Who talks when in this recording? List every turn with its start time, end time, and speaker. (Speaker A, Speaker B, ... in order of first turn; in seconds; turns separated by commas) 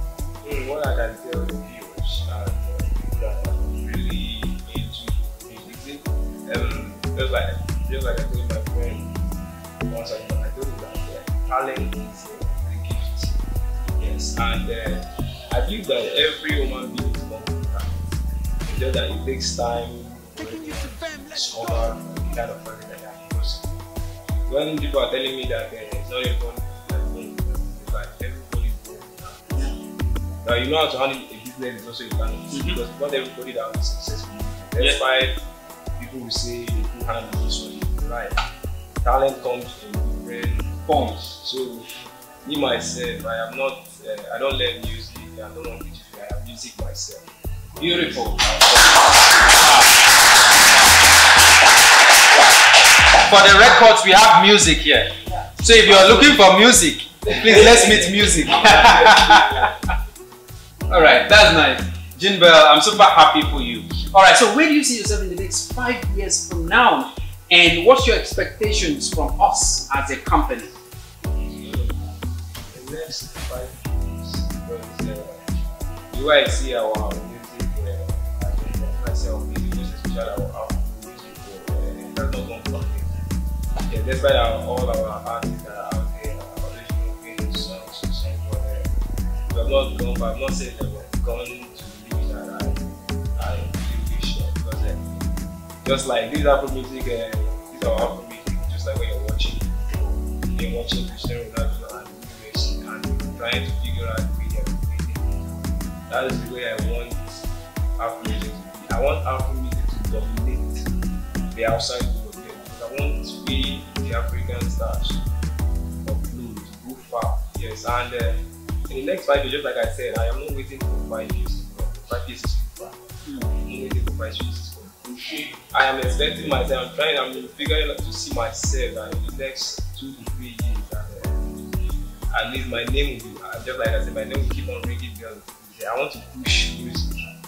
Speaker A: 0.4-13.3, Speaker A: 14.0-23.7, Speaker A: 24.5-29.7, Speaker A: 30.4-35.4, Speaker B: 32.5-32.8, Speaker A: 36.0-38.4, Speaker A: 39.0-49.6, Speaker B: 40.9-41.3, Speaker B: 47.8-48.4, Speaker B: 49.4-49.9, Speaker B: 53.2-59.7, Speaker A: 55.7-56.5, Speaker A: 57.2-59.8, Speaker B: 60.9-70.7, Speaker A: 71.4-72.1, Speaker A: 72.7-75.4, Speaker A: 76.1-83.1, Speaker A: 83.9-88.9, Speaker A: 89.5-92.8, Speaker A: 93.3-95.0, Speaker A: 95.8-107.5, Speaker A: 108.0-110.9, Speaker A: 111.5-115.2, Speaker A: 116.0-125.0, Speaker A: 125.7-131.4, Speaker A: 132.3-137.2